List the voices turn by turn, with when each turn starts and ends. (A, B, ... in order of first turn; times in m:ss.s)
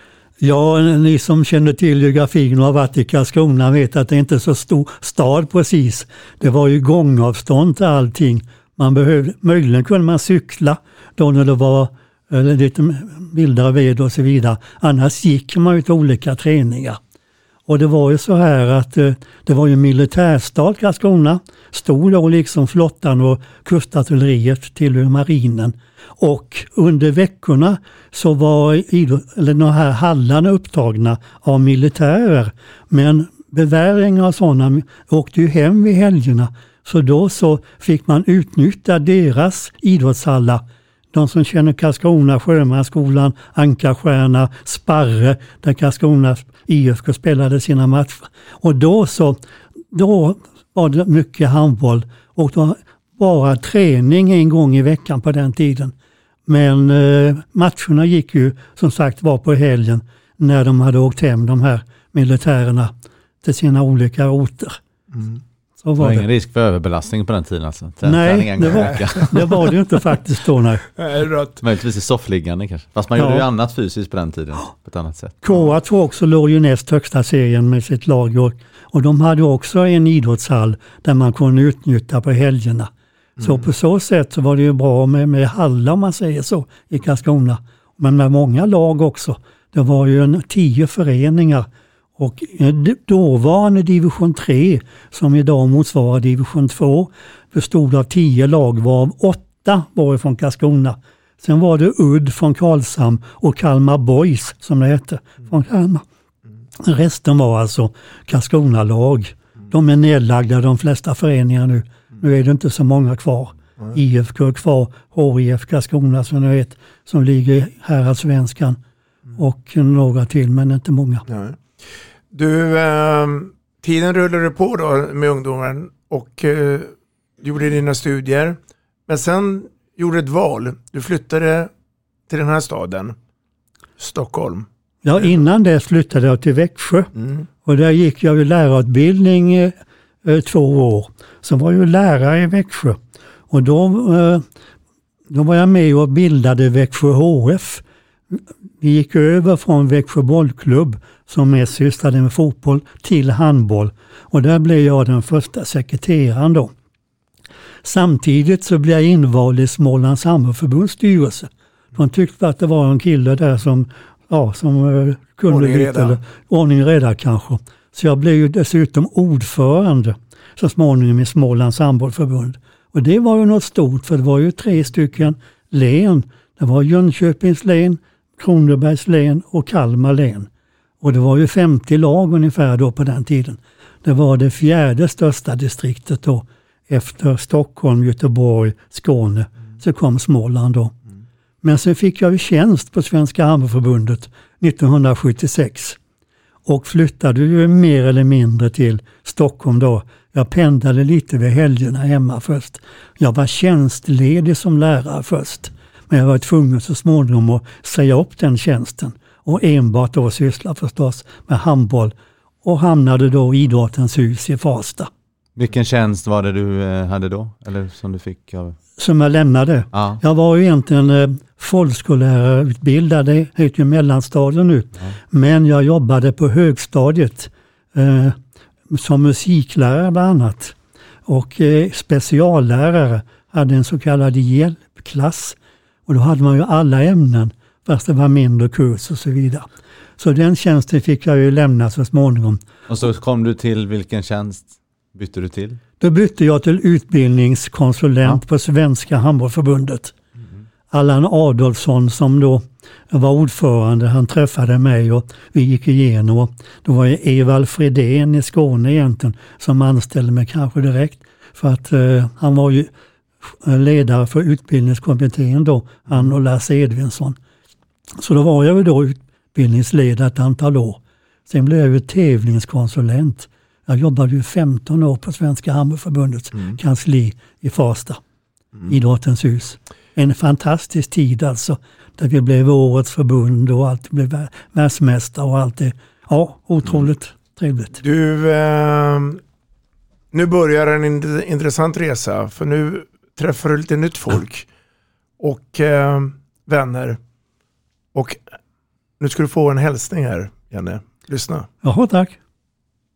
0:00.4-0:17.0 A
0:17.7-0:49.4 A
0:49.9-0:55.9 A
0:56.5-1:04.8 A
1:05.1-1:05.4 B
1:05.8-1:06.3 A
1:06.0-1:09.7 C
1:08.0-1:10.8 A
1:11.0-1:11.6 B
1:11.6-1:15.4 C
1:13.2-1:13.5 A
1:15.4-1:46.0 A
1:23.4-1:23.6 B
1:46.8-1:58.8 A
1:59.4-2:01.2 A
2:01.3-2:11.7 B
2:12.3-2:13.2 B
2:14.0-2:14.7 B
2:15.0-2:17.1 A
2:17.2-2:17.5 B
2:17.6-2:23.0 A
2:23.5-2:24.4 A
2:25.3-2:36.7 A
2:37.8-3:00.5 A
2:45.5-2:46.2 B
3:01.0-3:10.9 A
3:11.6-3:16.0 A
3:16.7-3:35.1 A
3:35.6-3:38.8 C
3:39.0-3:48.4 A
3:39.9-3:40.2 C
3:48.9-3:50.8 A
3:51.3-3:59.7 A
4:00.2-4:02.6 A
4:02.9-4:05.8 C
4:06.0-4:10.1 A
4:10.9-4:22.9 A
4:23.6-4:27.4 A
4:28.2-4:38.2 A
4:38.9-4:48.0 A
4:48.0-4:49.4 B
4:50.3-4:54.7 B
4:55.4-4:57.2 B
4:58.1-4:58.4 B
4:59.2-5:01.7 B
5:01.8-5:02.4 A